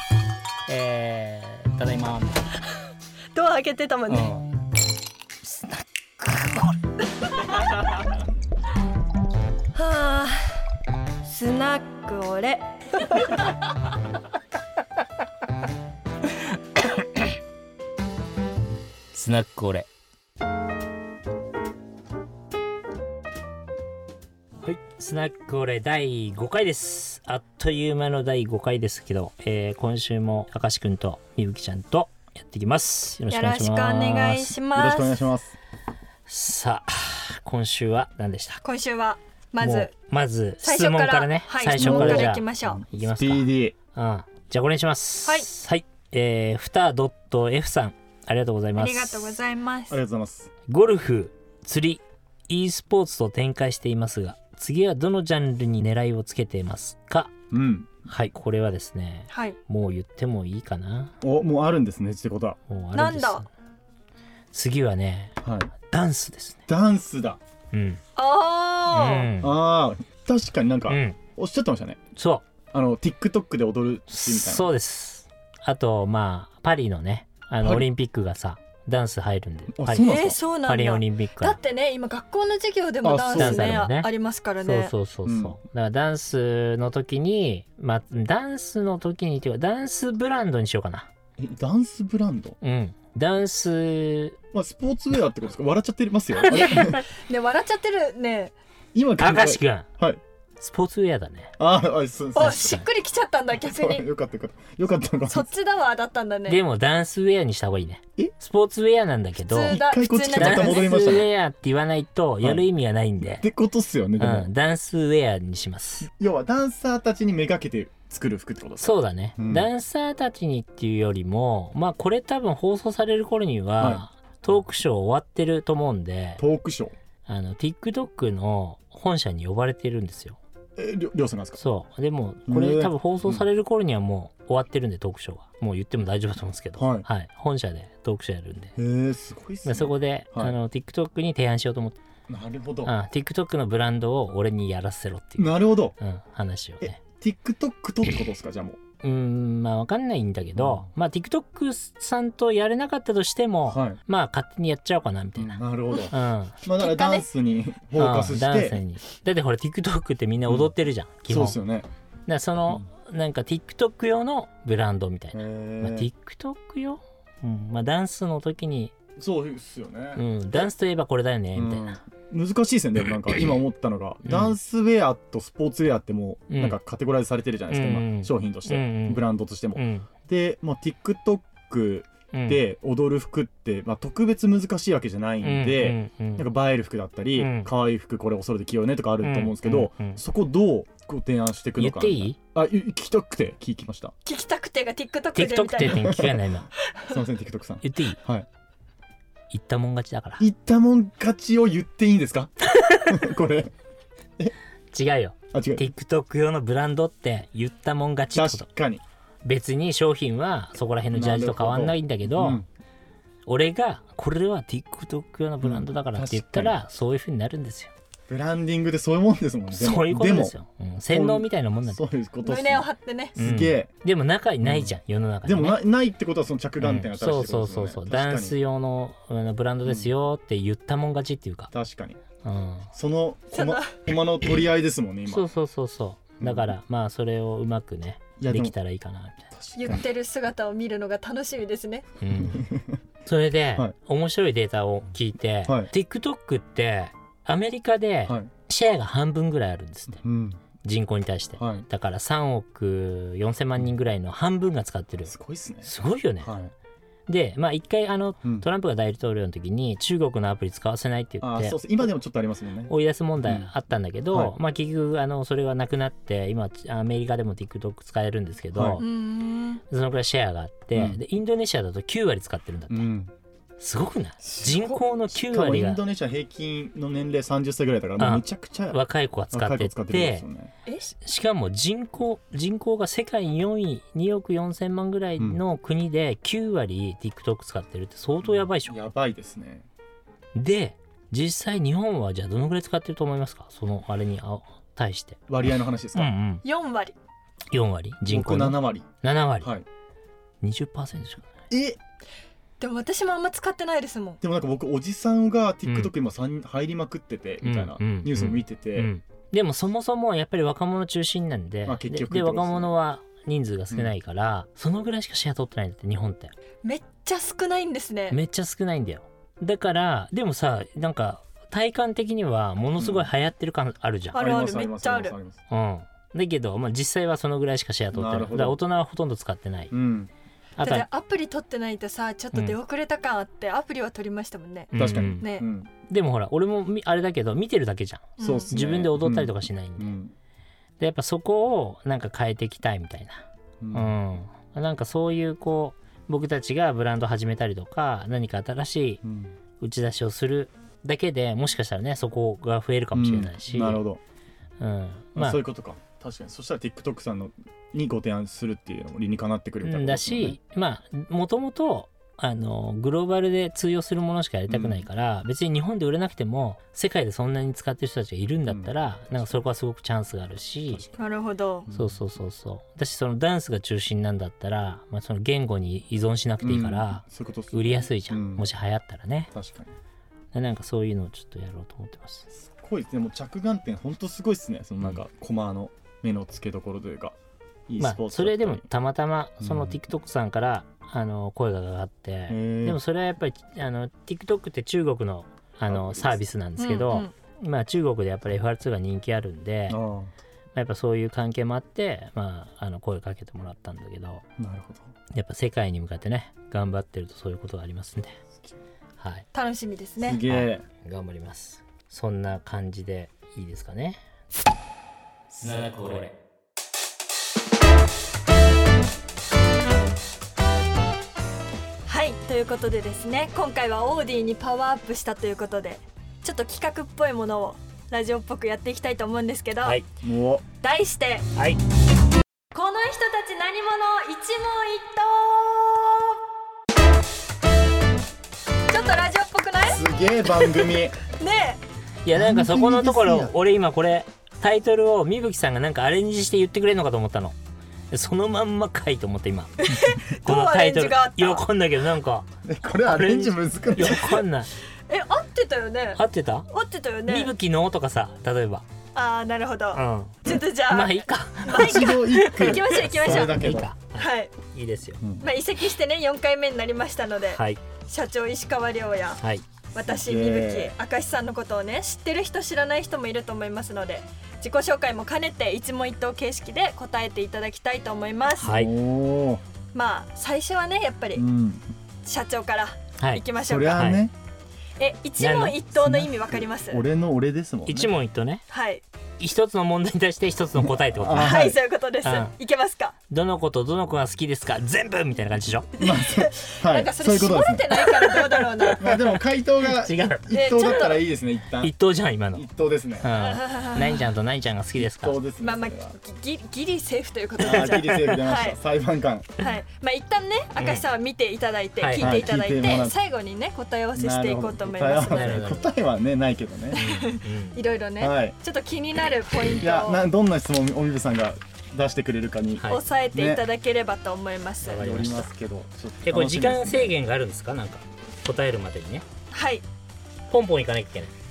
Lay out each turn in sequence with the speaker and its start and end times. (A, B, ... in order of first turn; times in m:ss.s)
0:00.7-0:02.4 A
0:03.3-0:04.4 B
0:04.1-0:04.4 A
0:09.8-0:10.6 B
0:11.2-0:13.4 B
0:19.1-0:19.9 A
0:24.6-0:34.6 A
0:33.3-0:35.3 B
0:34.8-0:35.6 C
0:36.3-0:38.6 A
0:38.6-0:39.9 B
0:39.6-0:49.4 A
0:40.6-0:42.8 B
0:41.8-0:43.8 C
0:48.8-0:50.0 B
0:49.9-0:50.5 C
0:50.7-0:57.3 A
0:57.5-0:57.9 C
0:58.1-1:01.2 A
0:59.3-0:59.6 B
1:01.2-1:02.6 C
1:02.7-1:03.5 A
1:02.9-1:03.4 B
1:04.5-1:06.6 A
1:05.4-1:05.7 C
1:06.7-1:07.4 C
1:07.7-1:08.0 A
1:08.2-1:09.3 B
1:08.9-1:09.6 A
1:09.4-1:12.0 C
1:10.9-1:11.2 A
1:12.2-1:12.4 A
1:12.7-1:14.7 C
1:14.1-1:21.6 A
1:17.6-1:17.9 C
1:19.7-1:20.4 C
1:20.0-1:24.9 B
1:23.0-1:23.8 C
1:23.3-1:24.1 A
1:24.6-1:31.1 A
1:25.2-1:25.6 C
1:31.4-1:32.6 C
1:32.6-1:34.4 A
1:34.5-1:37.1 C
1:36.5-1:38.5 B
1:38.9-1:40.2 C
1:39.2-1:39.9 A
1:40.6-1:41.5 A
1:41.6-1:42.8 C
1:42.4-1:44.1 B
1:42.4-1:42.8 A
1:43.6-1:45.5 C
1:45.3-1:46.6 B
1:46.5-1:49.8 A
1:49.5-1:51.2 B
1:49.5-1:51.3 C
1:50.4-1:53.4 A
1:52.4-1:52.7 C
1:53.2-1:54.5 C
1:54.2-1:56.1 A
1:56.2-1:59.7 C
1:58.8-2:06.4 A
2:03.8-2:04.0 C
2:06.4-2:06.9 C
2:07.3-2:10.4 A
2:10.8-2:11.6 C
2:11.6-2:18.8 A
2:12.5-2:13.4 C
2:16.8-2:17.1 C
2:18.8-2:20.6 C
2:19.6-2:22.0 A
2:22.3-2:22.9 C
2:22.8-2:27.0 A
2:25.4-2:26.0 C
2:27.0-2:28.8 C
2:29.0-2:36.6 A
2:30.6-2:30.9 C
2:33.7-2:34.0 C
2:35.4-2:38.8 C
2:36.8-2:37.3 B
2:38.0-2:41.6 A
2:41.3-2:41.9 C
2:42.3-2:48.9 A
2:45.3-2:46.1 C
2:49.2-2:50.7 C
2:50.2-2:52.0 A
2:51.6-3:14.1 C
2:54.2-2:54.6 A
2:56.5-2:56.8 A
2:57.7-3:00.1 A
3:02.3-3:02.6 A
3:05.4-3:06.5 A
3:07.4-3:07.7 A
3:09.2-3:10.2 A
3:11.8-3:12.4 A
3:14.2-3:16.1 B
3:15.4-3:16.7 A
3:15.8-3:16.4 C
3:17.1-3:18.5 C
3:17.8-3:18.2 A
3:19.5-3:20.4 A
3:20.4-3:23.7 C
3:22.8-3:23.2 A
3:24.9-3:28.6 A
3:25.5-3:25.9 C
3:28.3-3:29.0 C
3:29.4-3:32.6 A
3:31.1-3:32.7 C
3:33.5-3:37.9 A
3:35.6-3:36.8 C
3:38.3-3:40.6 C
3:39.7-3:42.0 A
3:41.1-3:43.9 C
3:42.4-3:43.4 B
3:43.4-3:45.8 A
3:44.6-3:48.6 C
3:46.8-3:51.7 A
3:49.9-3:50.1 C
3:51.7-3:52.2 C
3:52.4-3:52.9 A
3:52.9-3:55.5 C
3:53.5-3:54.0 B
3:55.3-3:59.5 A
3:56.4-3:56.7 C
3:58.4-3:58.8 C
3:59.5-4:00.1 C
3:59.8-4:02.0 B
4:02.2-4:02.8 A
4:02.3-4:03.0 C
4:03.3-4:10.2 A
4:05.7-4:05.9 C
4:08.3-4:08.5 C
4:10.2-4:10.6 C
4:10.8-4:15.3 A
4:11.6-4:11.9 C
4:15.3-4:16.7 C
4:15.8-4:16.6 A
4:17.3-4:22.1 A
4:21.4-4:22.9 C
4:22.9-4:29.0 A
4:23.4-4:23.7 C
4:28.8-4:29.0 C
4:29.0-4:29.8 B
4:29.9-4:33.1 A
4:30.9-4:31.2 C
4:32.9-4:33.3 C
4:33.8-4:36.0 A
4:34.4-4:39.0 C
4:38.2-4:40.5 A
4:39.5-4:40.7 C
4:40.9-4:41.1 B
4:41.2-4:49.0 A
4:48.4-4:49.9 C
4:50.6-4:55.4 A
4:55.5-4:56.3 C
4:56.1-4:56.6 A
4:56.6-4:57.2 B
4:57.7-4:59.7 A
4:58.3-4:59.1 C
5:00.6-5:01.5 A
5:01.7-5:02.0 C
5:02.8-5:04.4 B
5:04.4-5:09.1 C
5:05.8-5:06.1 A
5:07.6-5:16.5 A
5:11.9-5:12.9 C
5:16.8-5:18.4 B
5:18.3-5:24.4 A
5:23.0-5:23.3 C
5:24.3-5:25.4 B
5:24.4-5:25.6 C
5:25.7-5:29.9 A
5:28.1-5:28.8 C
5:29.9-5:30.3 C
5:30.8-5:31.1 A
5:30.8-5:35.7 B
5:34.9-5:35.5 A
5:34.9-5:35.9 C
5:36.1-5:40.2 A
5:38.4-5:38.7 B
5:38.4-5:40.3 C
5:41.0-5:49.2 A
5:43.8-5:44.2 C
5:49.2-5:49.5 C
5:49.8-5:54.0 A
5:53.1-5:54.2 C
5:54.8-5:55.6 A
5:55.4-6:00.6 C
5:59.8-6:11.1 A
6:04.7-6:05.1 C
6:08.7-6:08.9 C
6:11.2-6:11.9 B
6:11.9-6:12.2 C
6:11.9-6:19.5 A
6:16.6-6:18.7 C
6:19.5-6:19.9 C
6:20.5-6:22.5 A
6:22.5-6:27.4 C
6:27.9-6:28.9 C
6:28.0-6:40.0 A
6:29.6-6:30.0 C
6:32.5-6:33.0 C
6:35.9-6:36.4 C
6:36.8-6:37.3 B
6:39.9-6:40.3 C
6:40.7-6:44.4 A
6:44.6-6:45.1 C
6:45.3-6:48.4 A
6:49.2-6:49.5 A
6:49.5-6:50.4 B
6:50.2-6:50.8 C
6:50.4-6:54.2 A
6:55.5-6:56.3 A
7:02.1-7:10.0 B
7:10.2-7:10.6 C
7:10.8-7:11.5 B
7:11.6-7:11.8 A
7:12.7-7:16.4 B
7:18.9-7:21.8 B
7:19.8-7:21.2 C
7:22.2-7:27.6 A
7:22.3-7:23.6 C
7:28.1-7:32.5 A
7:29.8-7:31.6 B
7:32.7-7:34.4 C
7:33.0-7:34.7 A
7:35.1-7:37.5 B
7:36.2-7:36.7 A
7:37.3-7:38.9 A
7:39.2-7:43.6 B
7:39.9-7:45.2 A
7:41.7-7:43.9 C
7:44.2-7:44.5 B
7:45.2-7:45.5 C
7:45.4-7:49.4 B
7:47.5-7:47.8 A
7:49.4-7:49.7 A
7:49.9-7:58.8 B
7:50.0-7:50.9 C
7:58.6-7:58.9 A
7:58.7-7:59.6 C
7:59.9-8:01.4 B
8:01.4-8:01.9 C
8:02.2-8:04.1 B
8:03.6-8:04.3 C
8:04.0-8:04.2 A
8:05.0-8:07.0 B
8:05.4-8:05.9 A
8:06.0-8:08.2 C
8:07.9-8:08.6 A
8:08.7-8:09.0 B
8:09.4-8:11.6 A
8:10.8-8:11.8 C
8:11.4-8:13.2 B
8:12.2-8:12.5 A
8:13.3-8:15.9 A
8:16.0-8:18.0 C
8:16.0-8:19.0 B
8:19.0-8:21.9 C
8:19.9-8:21.0 A
8:20.5-8:21.2 B
8:21.8-8:22.7 A
8:22.5-8:23.3 C
8:23.2-8:25.4 A
8:23.3-8:24.3 B
8:25.0-8:26.2 C
8:25.6-8:28.8 B
8:27.6-8:29.6 C
8:29.6-8:35.8 B
8:30.8-8:31.0 A
8:32.0-8:32.5 A
8:32.2-8:33.2 C
8:34.2-8:37.2 C
8:35.2-8:35.9 A
8:36.9-8:40.2 B
8:37.0-8:37.8 A
8:38.2-8:38.6 C
8:39.8-8:43.6 C
8:42.9-8:45.0 B
8:44.8-8:45.5 A
8:45.0-8:47.2 C
8:46.2-8:49.2 A
8:49.5-8:49.8 B
8:50.5-8:51.3 A